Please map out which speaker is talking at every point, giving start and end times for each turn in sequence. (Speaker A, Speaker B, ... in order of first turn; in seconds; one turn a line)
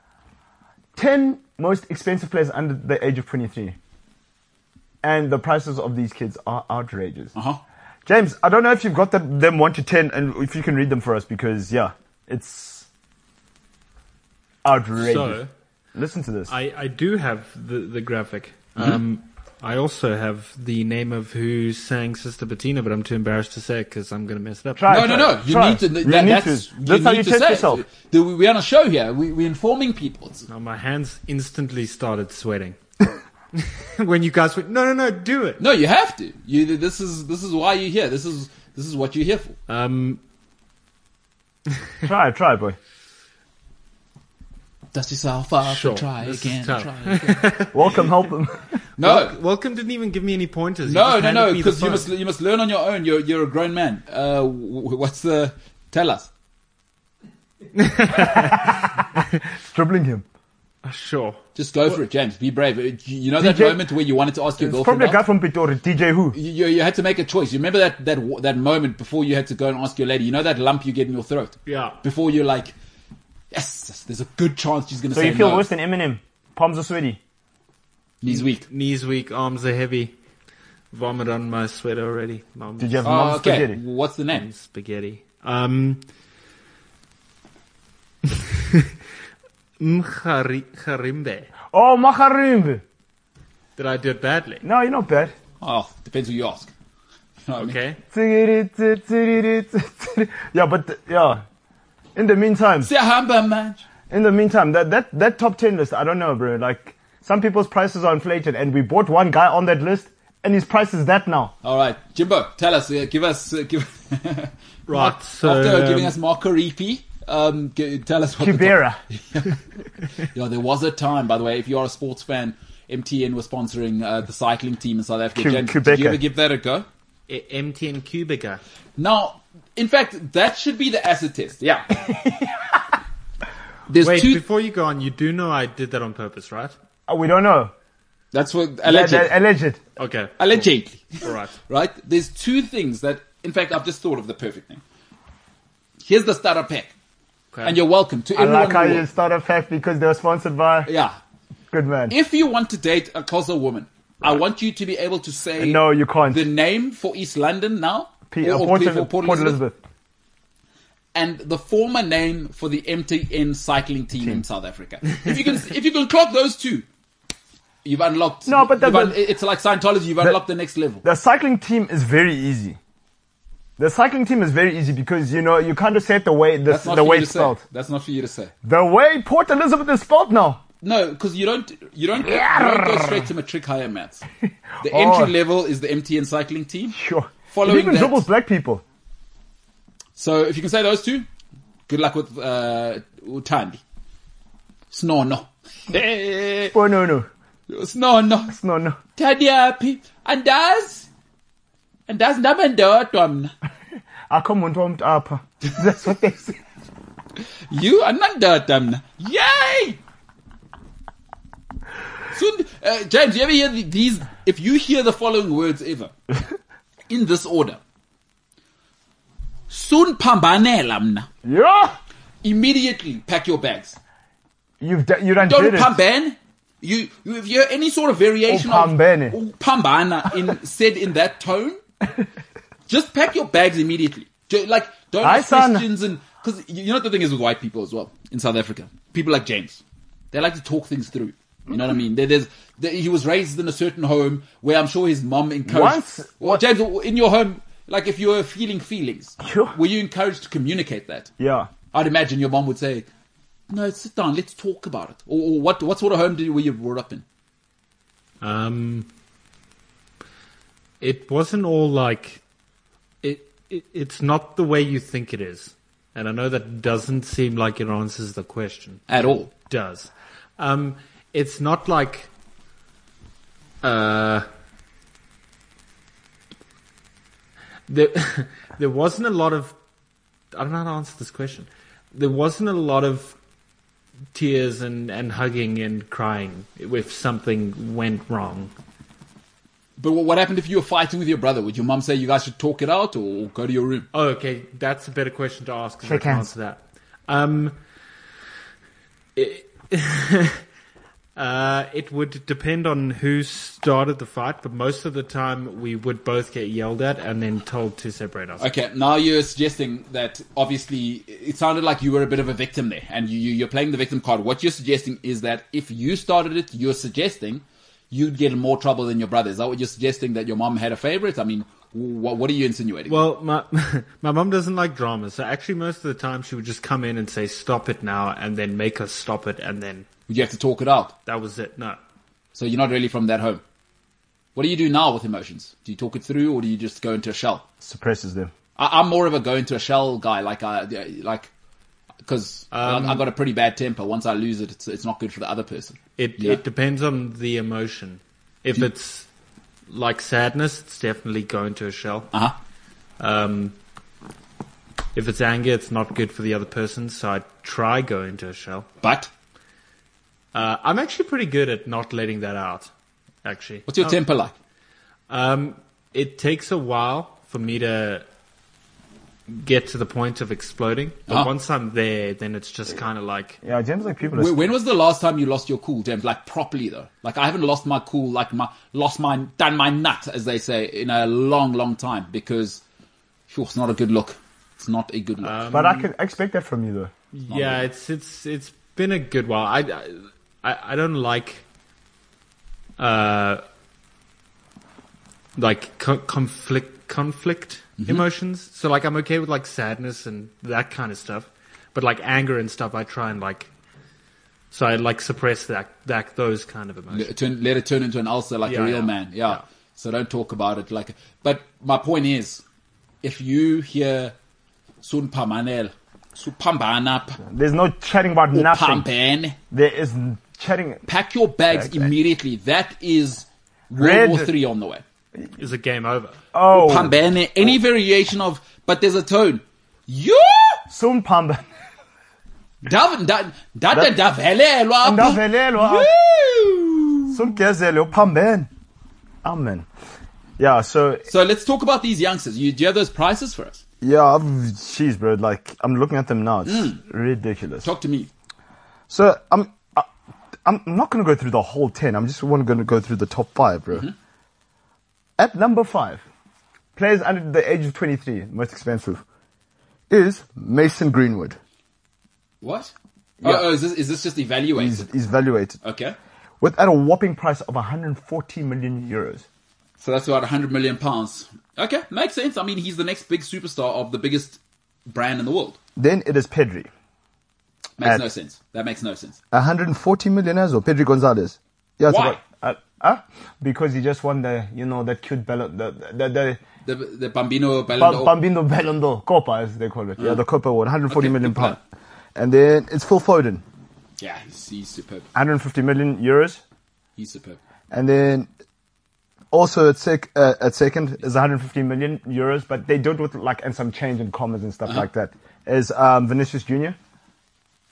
Speaker A: 0.9-3.8
Speaker A: 5.0-7.3
Speaker B: 7.3-7.6
Speaker A: 8.1-12.9
Speaker A: 14.6-15.4
Speaker C: 15.0-15.5
Speaker A: 15.9-16.5
Speaker C: 16.5-24.9
Speaker A: 24.8-27.8
Speaker B: 24.9-30.5
Speaker C: 30.5-32.8
Speaker C: 33.5-35.6
Speaker B: 35.6-39.6
Speaker C: 39.7-40.2
Speaker A: 42.0-42.8
Speaker B: 44.9-47.5
Speaker C: 45.6-47.9
Speaker A: 47.7-48.7
Speaker B: 49.0-49.4
Speaker C: 49.0-52.1
Speaker B: 50.9-56.3
Speaker C: 57.8-58.9
Speaker A: 58.3-60.2
Speaker C: 60.8-61.4
Speaker B: 61.5-65.2
Speaker A: 63.4-63.8
Speaker A: 64.6-66.4
Speaker B: 66.3-72.7
Speaker C: 71.7-72.0
Speaker B: 73.5-75.7
Speaker A: 75.1-77.2
Speaker B: 78.2-78.7
Speaker C: 78.3-80.1
Speaker C: 80.9-83.0
Speaker A: 82.8-83.8
Speaker B: 83.0-84.5
Speaker C: 84.3-86.0
Speaker C: 88.3-88.9
Speaker C: 89.8-91.5
Speaker A: 91.7-92.8
Speaker C: 93.8-94.6
Speaker A: 94.6-95.3
Speaker B: 95.6-96.7
Speaker B: 97.5-97.8
Speaker C: 97.6-98.0
Speaker A: 98.1-101.4
Speaker A: 102.2-102.9
Speaker B: 102.8-103.8
Speaker A: 104.1-111.5
Speaker B: 111.6-119.6
Speaker C: 114.9-116.1
Speaker A: 118.4-119.0
Speaker B: 120.2-126.9
Speaker A: 125.3-126.2
Speaker C: 127.3-128.6
Speaker B: 129.0-132.0
Speaker B: 133.9-134.4
Speaker C: 134.0-136.7
Speaker A: 137.1-137.7
Speaker B: 138.3-139.3
Speaker A: 138.8-139.8
Speaker C: 140.0-141.5
Speaker B: 140.4-144.8
Speaker B: 146.0-146.9
Speaker B: 147.6-149.0
Speaker A: 148.3-150.9
Speaker B: 150.8-151.2
Speaker A: 151.7-152.2
Speaker B: 152.1-159.6
Speaker A: 155.6-156.4
Speaker A: 158.3-159.8
Speaker B: 161.1-166.8
Speaker B: 167.8-171.0
Speaker A: 168.4-169.2
Speaker A: 171.0-172.8
Speaker A: 173.8-177.6
Speaker B: 176.7-178.5
Speaker A: 178.6-180.6
Speaker B: 180.8-184.2
Speaker A: 182.2-183.3
Speaker A: 184.5-185.3
Speaker B: 184.8-187.0
Speaker A: 186.9-188.8
Speaker B: 187.5-188.2
Speaker B: 190.2-191.3
Speaker B: 191.9-193.8
Speaker B: 194.9-196.8
Speaker A: 196.7-197.3
Speaker B: 197.7-198.5
Speaker A: 198.5-199.0
Speaker B: 199.2-201.1
Speaker B: 202.1-203.5
Speaker A: 204.3-206.6
Speaker B: 207.7-210.0
Speaker B: 212.3-216.1
Speaker B: 217.1-217.8
Speaker B: 219.7-221.3
Speaker A: 221.4-222.0
Speaker B: 222.4-224.0
Speaker A: 224.8-226.0
Speaker B: 225.4-231.8
Speaker A: 228.5-229.4
Speaker B: 232.9-251.3
Speaker A: 235.2-235.8
Speaker A: 245.7-246.6
Speaker A: 249.4-249.7
Speaker A: 251.4-251.7
Speaker B: 251.9-253.1
Speaker B: 253.7-257.2
Speaker C: 258.4-259.1
Speaker C: 261.0-262.4
Speaker C: 263.2-272.3
Speaker B: 269.1-269.5
Speaker C: 273.8-274.5
Speaker C: 277.9-279.8
Speaker C: 280.5-283.4
Speaker C: 284.3-288.7
Speaker B: 290.0-294.1
Speaker C: 294.1-297.8
Speaker A: 296.0-296.5
Speaker C: 299.4-300.6
Speaker C: 301.4-308.7
Speaker B: 308.6-323.2
Speaker C: 323.1-330.1
Speaker B: 330.3-331.1
Speaker C: 331.2-332.0
Speaker B: 332.5-333.6
Speaker B: 334.6-337.6
Speaker A: 337.8-338.5
Speaker B: 338.8-341.5
Speaker B: 342.2-346.6
Speaker C: 342.7-343.2
Speaker C: 346.2-349.3
Speaker C: 349.9-352.3
Speaker C: 353.2-353.8
Speaker C: 355.1-358.9
Speaker B: 359.0-359.3
Speaker C: 360.5-362.9
Speaker C: 363.4-364.2
Speaker B: 363.9-364.5
Speaker C: 365.3-368.2
Speaker C: 369.5-373.6
Speaker A: 373.6-374.7
Speaker B: 374.3-382.8
Speaker B: 383.5-385.6
Speaker C: 385.4-386.1
Speaker A: 385.7-387.1
Speaker C: 387.3-391.6
Speaker B: 387.5-387.8
Speaker C: 393.0-393.6
Speaker C: 395.6-403.7
Speaker B: 398.0-398.2
Speaker C: 404.7-407.3
Speaker B: 407.1-412.6
Speaker C: 408.6-409.6
Speaker B: 413.2-414.3
Speaker B: 415.0-417.4
Speaker A: 417.4-419.1
Speaker B: 418.5-419.6
Speaker A: 419.7-421.0
Speaker B: 421.1-425.0
Speaker A: 421.7-422.1
Speaker A: 423.9-424.5
Speaker C: 425.6-426.4
Speaker A: 426.5-427.1
Speaker B: 426.7-430.8
Speaker A: 430.9-431.6
Speaker B: 432.8-437.4
Speaker A: 435.0-436.1
Speaker A: 437.3-438.7
Speaker A: 439.4-439.9
Speaker A: 440.6-441.2
Speaker B: 441.3-443.8
Speaker A: 444.0-447.9
Speaker B: 446.6-447.0
Speaker B: 447.8-448.3
Speaker A: 449.1-450.1
Speaker A: 450.6-454.1
Speaker A: 455.4-456.2
Speaker A: 456.9-459.2
Speaker A: 460.1-461.6
Speaker B: 462.6-465.1
Speaker A: 464.8-465.8
Speaker B: 465.8-466.1
Speaker A: 466.6-469.4
Speaker B: 470.0-475.8
Speaker A: 476.0-476.9
Speaker B: 478.0-479.4
Speaker A: 479.5-486.6
Speaker B: 482.1-482.4
Speaker B: 486.8-488.3
Speaker A: 488.0-491.8
Speaker B: 491.1-491.8
Speaker A: 492.3-493.6
Speaker B: 494.2-495.3
Speaker A: 495.3-496.6
Speaker B: 497.2-497.6
Speaker A: 497.9-498.5
Speaker A: 499.5-507.0